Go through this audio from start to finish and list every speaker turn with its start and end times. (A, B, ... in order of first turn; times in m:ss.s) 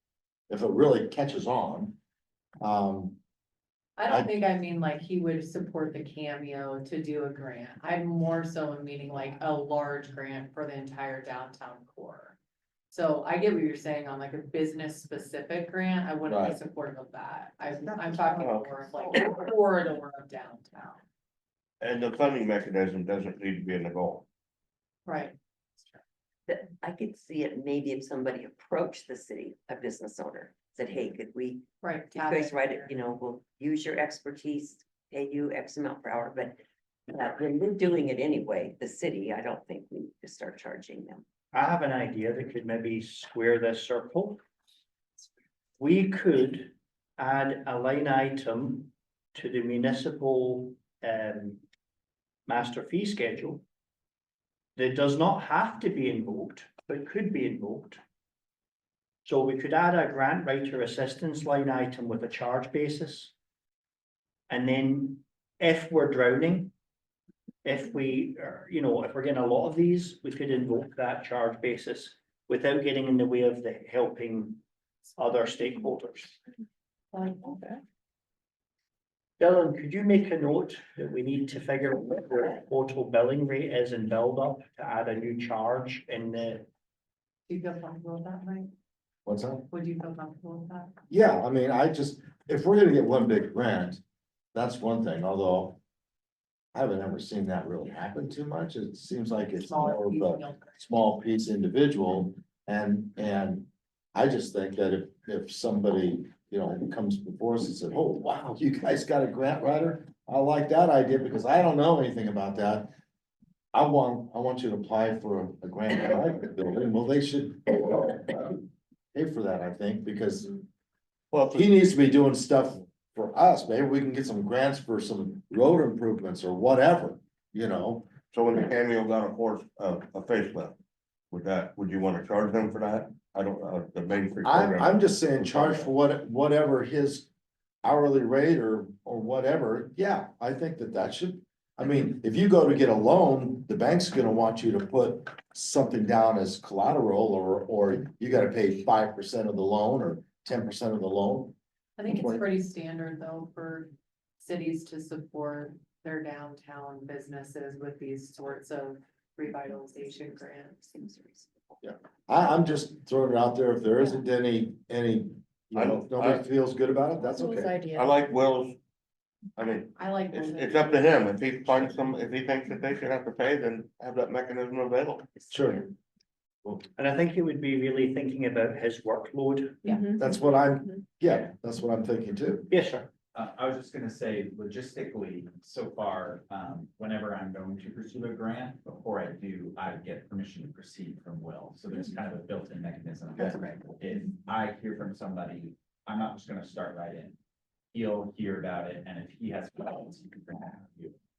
0:00.5-0:02.0 A
0:02.6-0:03.2 A
0:04.0-0:12.4 B
0:12.9-0:21.0 B
0:16.3-0:16.6 A
0:18.4-0:18.7 C
0:21.8-0:24.2 C
0:25.1-0:26.0 B
0:26.5-0:36.6 D
0:31.8-0:32.9 B
0:37.1-0:41.2 D
0:41.5-0:44.4 E
0:45.8-0:51.6 E
0:52.5-0:53.6 E
0:54.8-0:58.0 E
0:59.2-1:03.3 E
1:04.5-1:06.7 E
1:07.6-1:14.6 E
1:15.2-1:16.4 E
1:17.1-1:17.8 B
1:19.4-1:26.7 E
1:27.5-1:28.7 B
1:29.3-1:29.7 A
1:29.7-1:30.9 B
1:31.1-1:34.0 A
1:34.5-1:35.8 A
1:36.7-1:52.9 A
1:39.6-1:40.8 B
1:53.7-1:58.6 A
1:59.1-2:00.6 A
2:01.3-2:01.7 C
2:01.5-2:08.1 A
2:08.3-2:10.8 C
2:11.3-2:15.9 C
2:14.4-2:17.3 A
2:17.8-2:31.6 A
2:32.0-2:41.2 B
2:32.1-2:32.4 A
2:41.0-2:41.6 D
2:41.8-2:47.7 A
2:45.8-2:46.4 C
2:47.4-2:48.2 B
2:47.9-2:48.8 C
2:49.6-2:55.3 C
2:50.0-2:51.6 B
2:55.5-2:55.9 A
2:57.0-3:00.0 E
2:59.8-3:00.3 B
3:00.2-3:02.7 A
3:02.7-3:03.1 E
3:03.3-3:17.4 F
3:17.9-3:21.2 F